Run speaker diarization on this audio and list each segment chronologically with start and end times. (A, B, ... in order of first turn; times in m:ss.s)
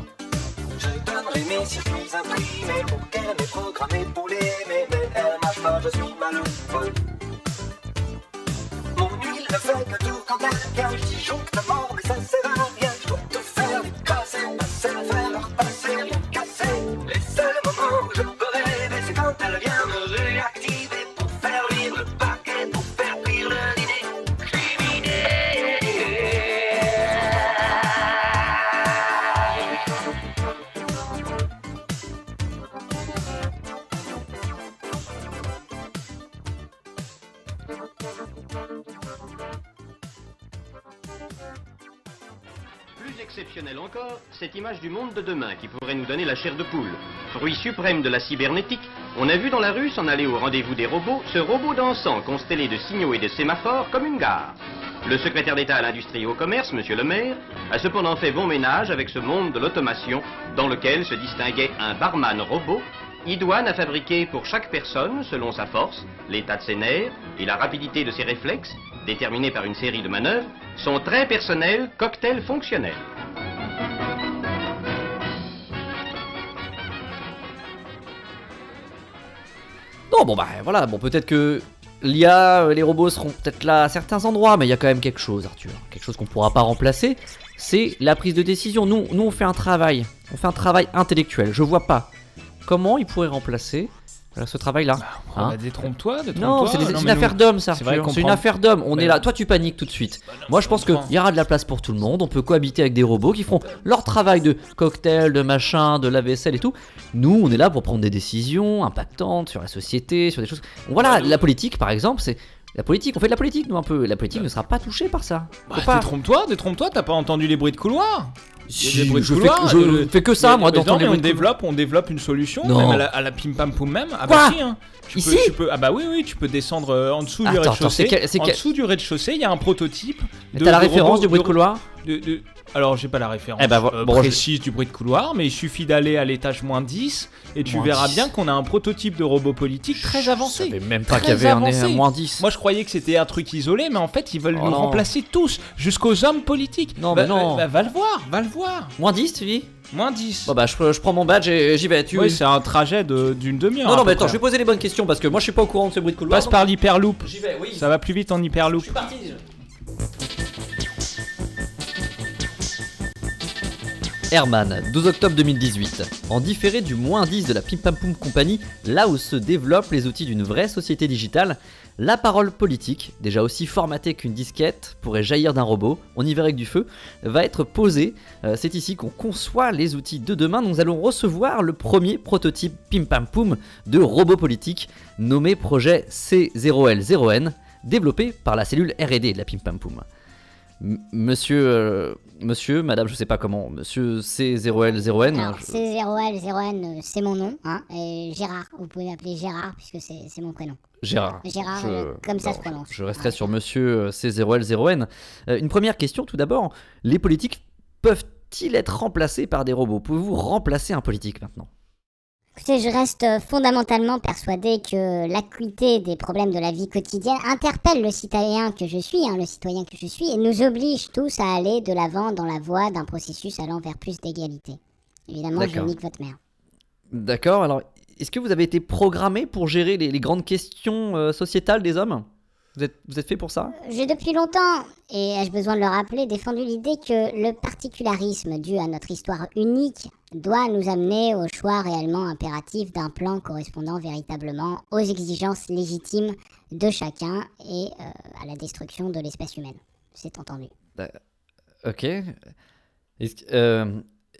0:00.8-0:06.9 A
0:08.9-0:26.7 A
0:43.0-1:13.1 B
1:20.1-1:32.1 C
1:32.6-1:35.6 C
1:35.0-1:39.2 D
1:36.3-1:56.1 C
1:40.3-1:41.1 D
1:51.0-1:51.4 D
1:55.7-2:28.9 D
1:58.7-2:01.5 C
2:02.6-2:03.0 C
2:04.2-2:04.6 C
2:05.1-2:05.5 C
2:07.4-2:08.6 C
2:10.5-2:11.8 C
2:13.6-2:14.4 C
2:17.6-2:18.3 C
2:19.9-2:22.4 C
2:24.5-2:25.1 C
2:27.0-2:27.7 C
2:29.0-2:29.7 C
2:29.9-2:30.5 D
2:30.4-2:32.4 C
2:32.1-2:34.4 D
2:33.8-2:36.7 C
2:36.3-2:39.0 D
2:37.2-2:37.9 C
2:38.7-2:39.4 C
2:44.3-3:10.0 C
3:10.8-3:15.8 C
3:15.3-3:20.8 E
3:21.0-3:31.7 C
3:21.4-3:23.5 E
3:32.6-3:46.4 E
3:45.6-3:45.9 C
3:47.1-3:53.7 C
3:53.8-4:10.7 E
4:11.8-4:12.4 C
4:13.2-4:14.0 C